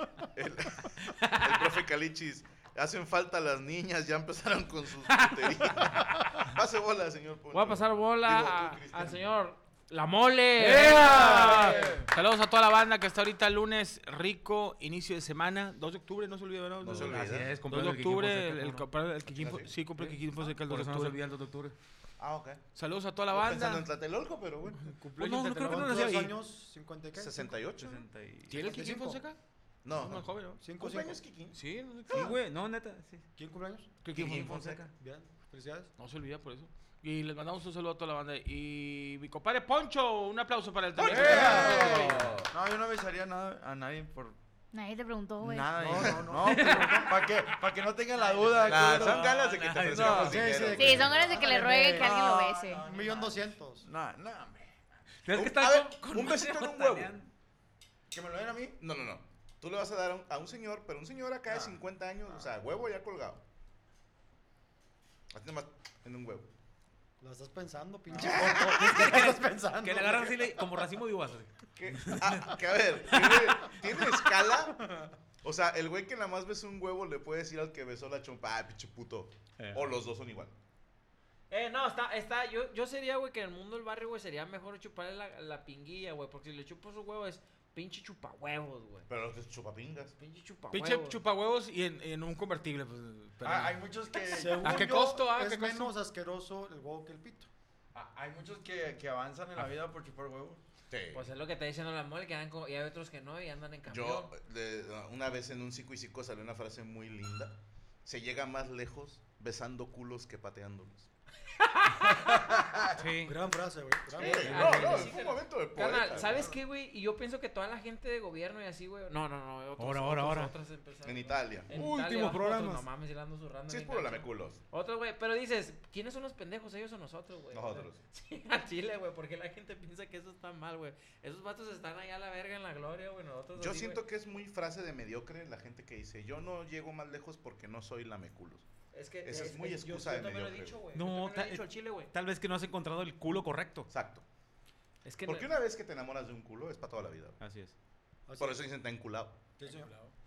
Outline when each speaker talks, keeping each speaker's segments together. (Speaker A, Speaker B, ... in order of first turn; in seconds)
Speaker A: 0.3-9.3, 16.8-17.6, 19.3-19.7, 22.2-22.6, 23.3-24.9, 27.1-28.1, 29.8-32.3, 34.1-34.9, 41.0-42.5, 48.7-51.3, 55.3-57.1, 58.8-63.4, 65.3-66.5, 68.1-69.3, 71.8-74.9, 75.4-80.5, 89.1-90.2, 100.9-101.3, 103.9-111.1, 114.2-116.5, 121.0-121.7, 123.7-124.6, 127.5-128.0, 133.6-138.6, 139.2-140.8, 143.9-144.2, 145.2-147.4, 148.4-149.4
Speaker B: 5.1-5.9, 16.9-18.9, 20.0-21.7, 25.2-26.3, 27.8-28.7, 32.1-33.2, 48.5-50.5, 55.2-57.3, 68.5-72.5, 79.6-79.9, 113.0-113.4, 114.5-115.1, 119.8-120.5, 121.7-122.8, 140.9-143.9, 147.4-147.7
Speaker C: 7.5-11.8, 46.5-47.1, 48.2-48.8, 81.5-89.1, 90.2-91.2, 101.1-104.3, 111.6-112.4, 114.2-134.0, 138.9-142.1, 145.1-145.5
Speaker D: 10.6-21.5, 22.8-23.9, 24.8-26.3, 28.5-29.4, 29.9-30.7, 31.5-32.4, 34.0-34.8, 36.0-42.4, 90.7-93.8, 94.6-95.9, 149.7-150.1
Speaker E: 25.4-27.6, 28.5-29.2, 30.6-31.2, 33.4-33.9, 35.0-35.9, 41.1-42.1, 45.8-47.2, 50.1-53.9, 67.2-70.7, 73.2-73.4, 94.3-97.5, 113.2-114.9, 148.3-148.6, 149.6-149.9
Speaker F: 41.0-44.4, 45.4-49.3, 49.9-50.5, 52.0-54.7, 58.1-58.8, 93.4-95.0, 97.9-100.6
Speaker G: 44.7-46.0, 50.7-52.8